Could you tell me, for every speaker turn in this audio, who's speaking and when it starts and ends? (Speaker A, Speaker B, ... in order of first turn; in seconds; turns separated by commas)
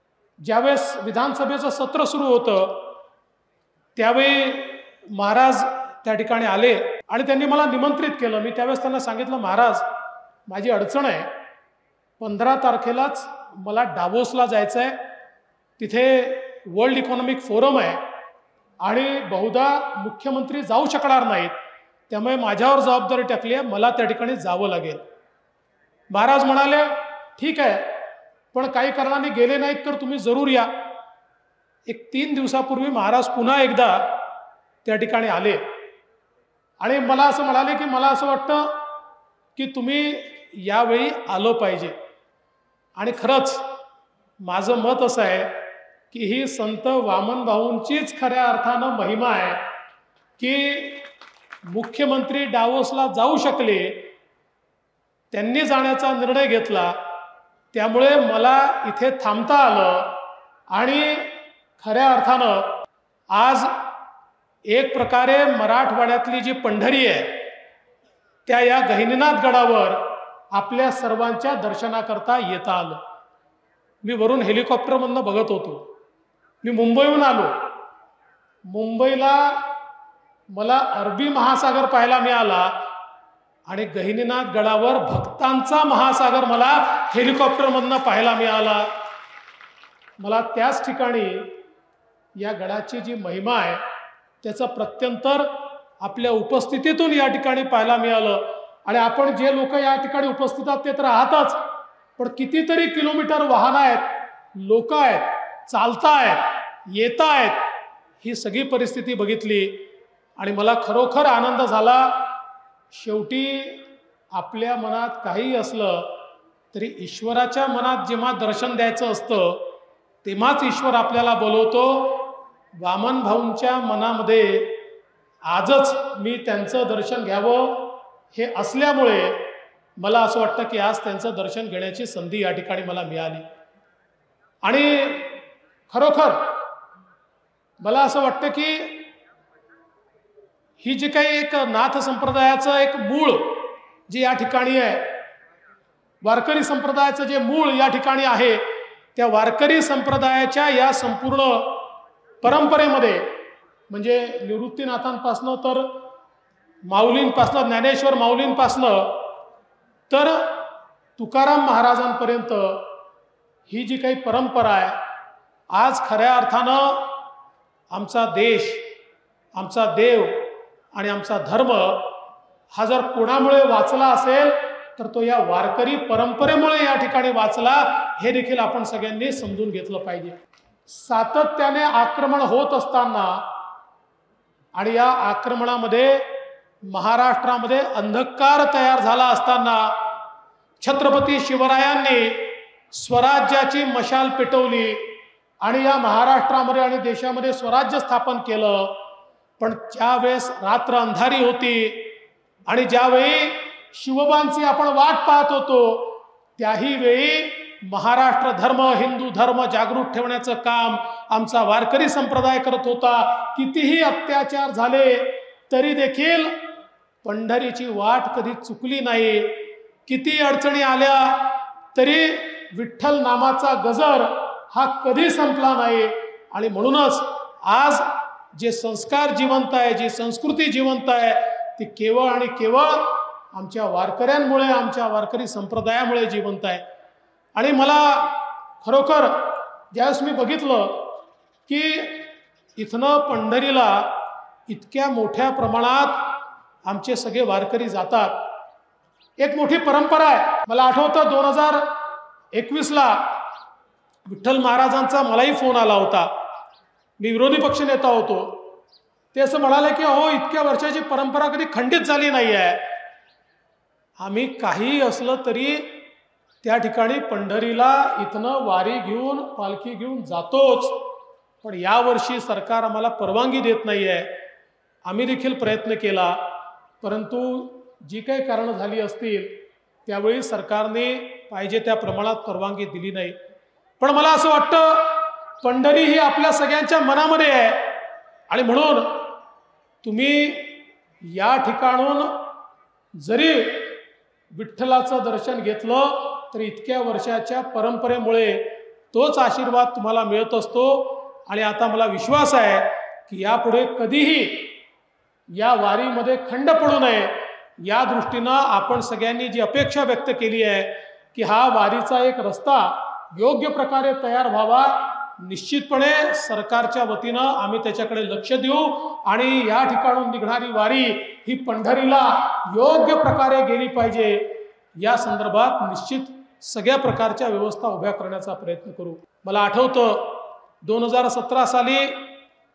Speaker A: 0.4-2.9, Speaker A: 4.0-9.9, Speaker A: 10.5-11.3, Speaker A: 12.2-15.0, Speaker A: 15.8-18.0, Speaker A: 18.8-21.6, Speaker A: 22.1-25.0, Speaker A: 26.1-28.0, Speaker A: 28.5-30.7, Speaker A: 31.9-34.2, Speaker A: 34.8-35.6, Speaker A: 36.8-38.8, Speaker A: 39.5-42.0, Speaker A: 43.0-43.6, Speaker A: 44.4-49.6, Speaker A: 50.4-51.1, Speaker A: 51.7-54.1, Speaker A: 55.3-57.0, Speaker A: 57.7-60.2, Speaker A: 60.7-62.7, Speaker A: 63.3-63.8, Speaker A: 64.7-67.4, Speaker A: 68.5-73.0, Speaker A: 74.0-75.9, Speaker A: 76.6-77.6, Speaker A: 78.7-79.7, Speaker A: 80.5-82.8, Speaker A: 83.7-88.9, Speaker A: 90.2-91.5, Speaker A: 92.4-93.8, Speaker A: 94.4-101.6, Speaker A: 102.2-107.6, Speaker A: 108.2-109.8, Speaker A: 110.4-112.3, Speaker A: 112.9-116.1, Speaker A: 116.7-119.6, Speaker A: 120.2-124.8, Speaker A: 125.5-133.5, Speaker A: 134.6-135.3, Speaker A: 135.9-136.6, Speaker A: 137.8-139.1, Speaker A: 140.8-145.1, Speaker A: 146.2-148.6, Speaker A: 149.2-151.8, Speaker A: 152.4-153.3, Speaker A: 153.9-156.0, Speaker A: 156.8-159.2, Speaker A: 160.1-160.6, Speaker A: 161.2-162.9, Speaker A: 163.7-165.0, Speaker A: 165.7-167.1, Speaker A: 167.9-168.8, Speaker A: 169.5-172.1, Speaker A: 172.7-180.4, Speaker A: 180.9-183.5, Speaker A: 184.7-186.3, Speaker A: 186.9-190.0, Speaker A: 190.8-195.1, Speaker A: 195.6-199.0, Speaker A: 199.6-202.1, Speaker A: 202.7-216.6, Speaker A: 217.2-236.8, Speaker A: 237.5-241.2, Speaker A: 241.7-244.1, Speaker A: 244.7-246.3, Speaker A: 246.8-248.4, Speaker A: 249.4-251.9, Speaker A: 252.5-253.4, Speaker A: 254.3-256.3, Speaker A: 257.2-258.7, Speaker A: 259.3-262.8, Speaker A: 264.2-266.0, Speaker A: 266.6-271.0, Speaker A: 271.6-274.3, Speaker A: 275.1-276.4, Speaker A: 277.0-279.6, Speaker A: 280.1-283.4, Speaker A: 284.0-287.9, Speaker A: 288.5-289.3, Speaker A: 290.0-292.4, Speaker A: 293.1-294.0, Speaker A: 294.5-304.7, Speaker A: 305.6-332.3